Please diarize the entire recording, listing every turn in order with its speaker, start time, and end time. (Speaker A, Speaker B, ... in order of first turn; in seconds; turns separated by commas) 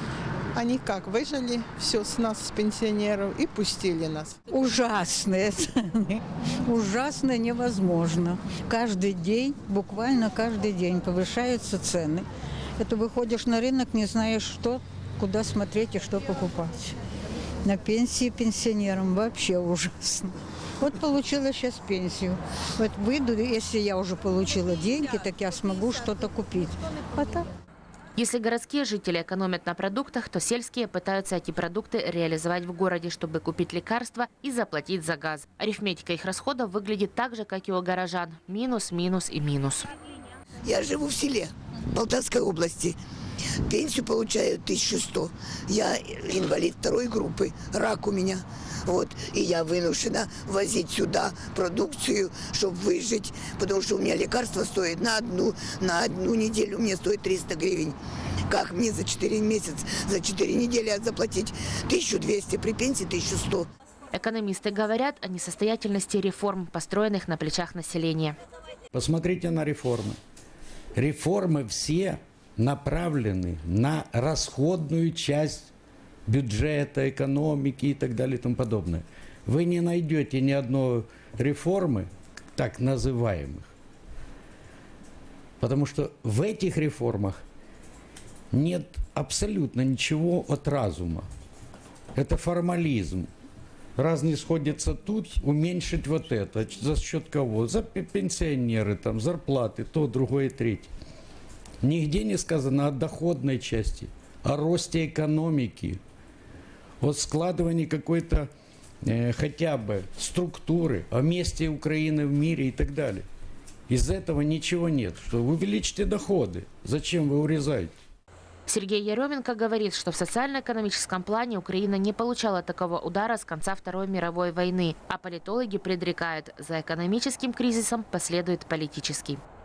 Speaker A: 0.5-4.3, Speaker B: 4.5-12.2, Speaker B: 12.8-16.9, Speaker B: 17.6-27.5, Speaker C: 28.1-39.9, Speaker D: 40.6-43.0, Speaker D: 43.7-58.0, Speaker D: 58.5-63.6, Speaker C: 64.1-68.4, Speaker E: 68.9-70.2, Speaker E: 71.0-75.7, Speaker E: 76.3-83.7, Speaker E: 85.6-87.4, Speaker E: 88.5-91.3, Speaker E: 92.2-93.3, Speaker E: 94.0-100.9, Speaker E: 101.8-106.0, Speaker E: 107.0-108.5, Speaker E: 109.0-113.3, Speaker E: 113.9-117.9, Speaker C: 118.7-129.4